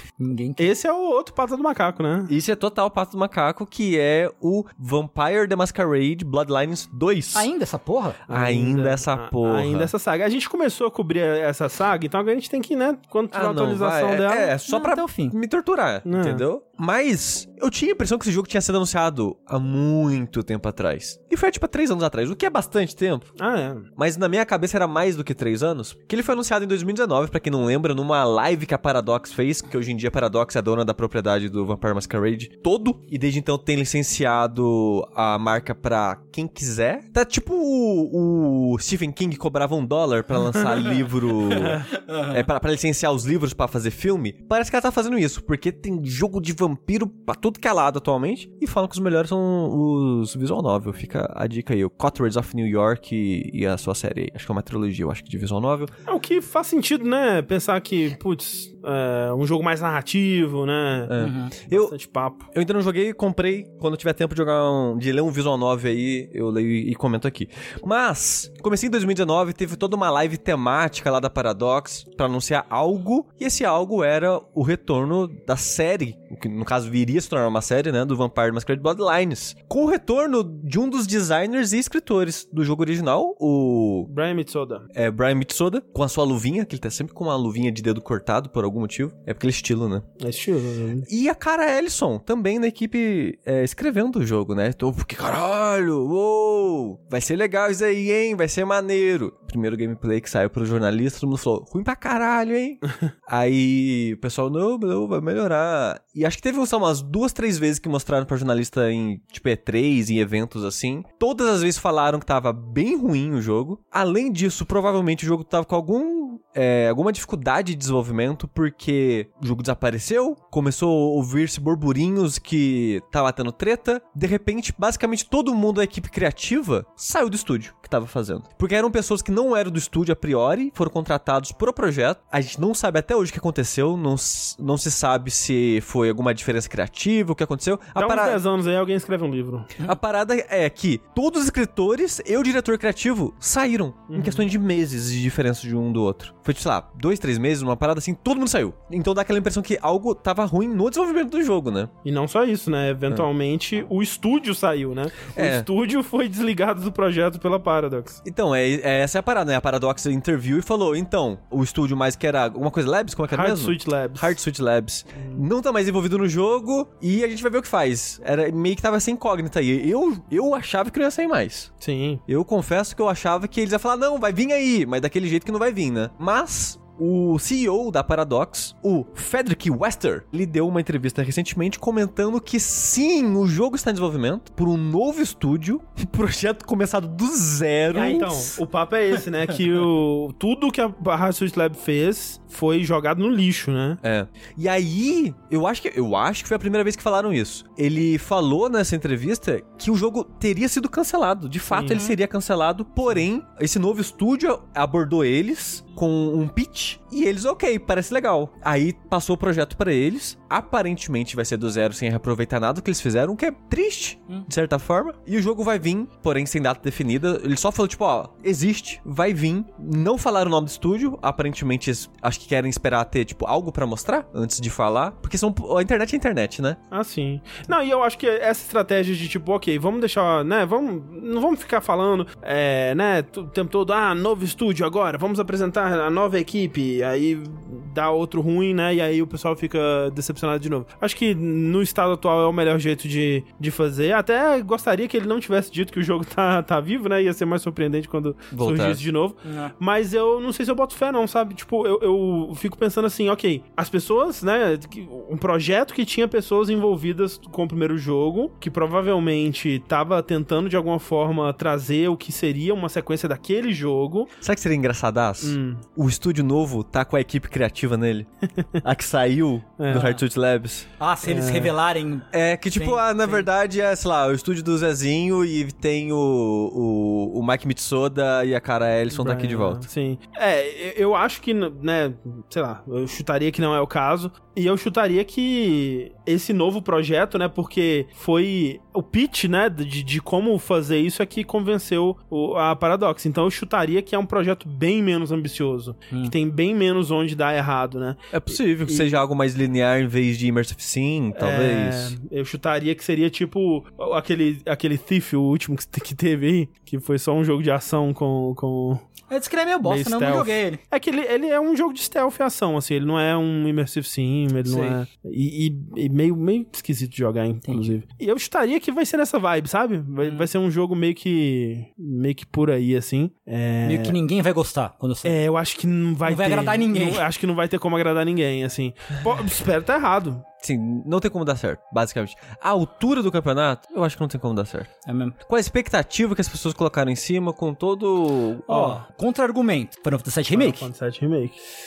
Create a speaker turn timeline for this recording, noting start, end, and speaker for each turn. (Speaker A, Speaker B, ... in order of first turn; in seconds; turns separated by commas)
Speaker A: 0.2-0.7, Speaker B: 0.6-2.3, Speaker C: 2.3-7.5, Speaker A: 7.3-8.2, Speaker C: 8.3-9.9, Speaker B: 8.3-14.5, Speaker C: 13.3-23.3, Speaker A: 14.7-15.3, Speaker B: 16.1-16.4, Speaker B: 23.4-23.9, Speaker C: 23.9-55.9, Speaker A: 41.5-42.4, Speaker B: 56.1-61.1, Speaker C: 61.1-61.9, Speaker A: 61.2-61.5, Speaker B: 61.7-62.5, Speaker C: 62.5-84.1, Speaker B: 84.1-84.8, Speaker C: 84.9-90.1, Speaker B: 90.2-91.1, Speaker C: 91.1-138.4, Speaker B: 138.0-139.8, Speaker C: 139.8-151.9, Speaker B: 144.1-144.4, Speaker B: 152.0-158.2, Speaker C: 155.4-155.7, Speaker C: 158.2-171.7, Speaker B: 163.3-164.3, Speaker B: 165.2-165.4, Speaker B: 171.8-172.2, Speaker C: 172.3-188.5, Speaker B: 187.9-194.0, Speaker A: 188.0-188.6, Speaker C: 194.0-226.8, Speaker B: 201.7-202.1, Speaker B: 226.9-264.3, Speaker C: 248.5-249.0, Speaker A: 249.4-249.7, Speaker C: 264.4-268.3, Speaker B: 265.4-265.8, Speaker C: 268.8-270.9, Speaker B: 269.8-270.2, Speaker A: 271.0-273.4, Speaker B: 271.2-271.7, Speaker C: 272.3-279.8, Speaker B: 279.1-298.3, Speaker C: 298.3-302.1, Speaker B: 298.9-299.1, Speaker B: 301.4-309.1, Speaker A: 309.3-310.8, Speaker B: 309.8-324.2, Speaker A: 314.6-315.0, Speaker A: 317.7-317.9, Speaker A: 323.8-325.4, Speaker B: 325.2-330.4, Speaker A: 326.3-327.2, Speaker C: 330.6-334.9, Speaker A: 335.1-335.4, Speaker C: 335.4-338.9, Speaker A: 338.7-340.9, Speaker B: 340.5-341.6